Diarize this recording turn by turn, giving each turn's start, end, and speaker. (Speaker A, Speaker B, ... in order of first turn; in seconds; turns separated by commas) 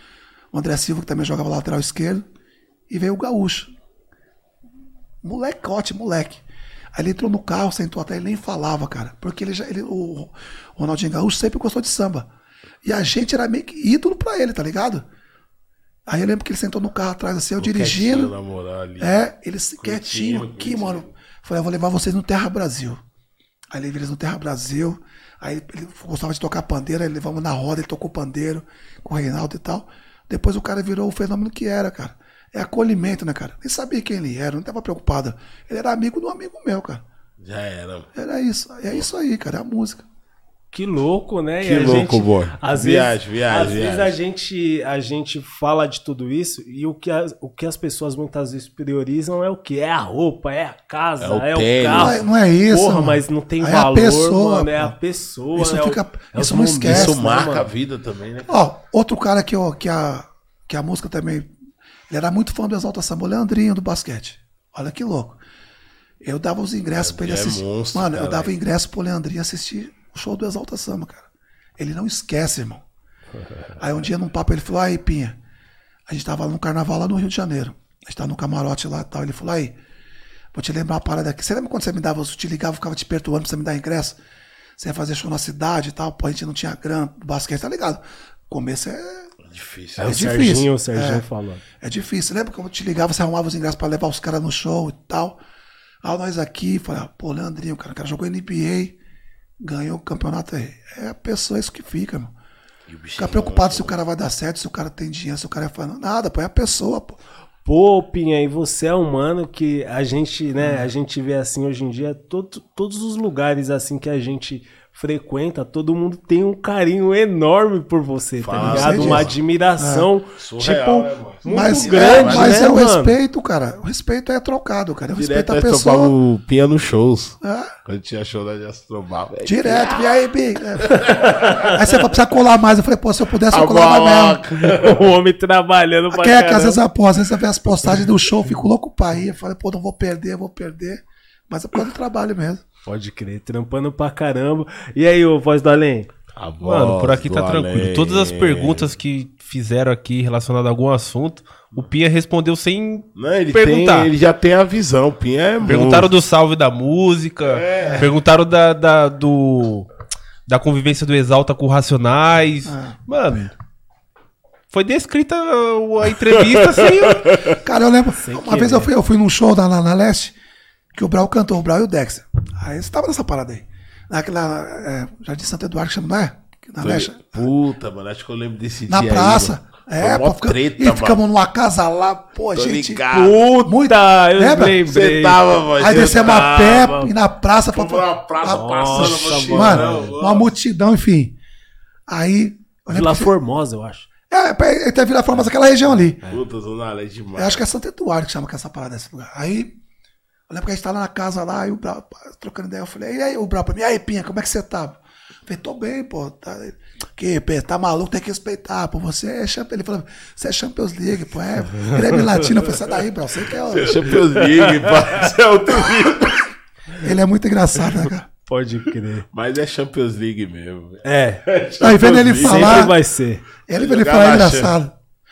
Speaker A: 0.5-2.2, Speaker A: 2.9-3.7, Speaker A: 5.2-12.3, Speaker A: 12.8-15.1, Speaker A: 16.1-18.3, Speaker B: 17.6-19.2, Speaker A: 19.0-23.0, Speaker B: 19.8-21.1, Speaker A: 23.7-37.0, Speaker B: 37.4-38.1, Speaker A: 38.1-40.0, Speaker C: 40.7-57.7, Speaker B: 41.6-44.2, Speaker B: 51.2-52.2, Speaker A: 51.9-55.0, Speaker A: 55.5-57.1, Speaker B: 56.8-58.6, Speaker A: 58.5-61.5, Speaker A: 62.1-65.4, Speaker A: 66.2-72.8, Speaker B: 67.0-68.5, Speaker A: 73.8-75.4, Speaker A: 76.1-79.8, Speaker A: 80.5-84.2, Speaker A: 84.8-89.3, Speaker B: 89.4-90.3, Speaker C: 90.0-91.6, Speaker A: 90.0-91.2, Speaker A: 91.8-95.4, Speaker A: 96.0-99.0, Speaker A: 99.6-102.3, Speaker B: 102.9-104.0, Speaker A: 103.2-107.2, Speaker C: 107.7-123.2, Speaker A: 110.6-110.9, Speaker B: 118.4-119.4, Speaker A: 118.6-120.1, Speaker B: 120.4-122.7, Speaker A: 121.5-126.2, Speaker B: 125.2-130.2, Speaker A: 127.4-127.7, Speaker A: 129.4-134.4, Speaker B: 130.8-131.9, Speaker C: 130.9-131.7, Speaker B: 133.5-135.1, Speaker C: 134.7-136.8, Speaker A: 136.1-142.6, Speaker C: 142.9-146.1, Speaker B: 146.4-148.9, Speaker D: 146.6-154.1, Speaker B: 153.2-156.1, Speaker D: 155.6-159.9, Speaker B: 157.4-158.1, Speaker D: 160.5-163.5, Speaker A: 162.7-163.4, Speaker D: 164.7-167.3, Speaker B: 166.5-167.6, Speaker A: 167.6-170.4, Speaker C: 168.2-168.9, Speaker A: 170.9-177.5, Speaker B: 176.8-181.2, Speaker A: 178.9-184.8, Speaker B: 182.5-183.5, Speaker C: 183.1-187.0, Speaker B: 184.9-187.1, Speaker A: 185.8-191.4, Speaker B: 187.7-190.5, Speaker C: 188.4-190.0, Speaker A: 192.1-193.3, Speaker C: 192.9-194.1, Speaker A: 194.3-196.2, Speaker B: 196.2-197.6, Speaker A: 197.4-199.8, Speaker A: 200.5-214.2, Speaker C: 211.9-212.4, Speaker B: 213.6-216.5, Speaker C: 214.4-214.9, Speaker A: 217.0-218.3, Speaker C: 218.5-219.3, Speaker B: 219.3-222.9, Speaker C: 221.0-221.4, Speaker A: 221.8-223.0, Speaker C: 222.4-223.4, Speaker A: 223.7-224.9, Speaker B: 223.7-224.8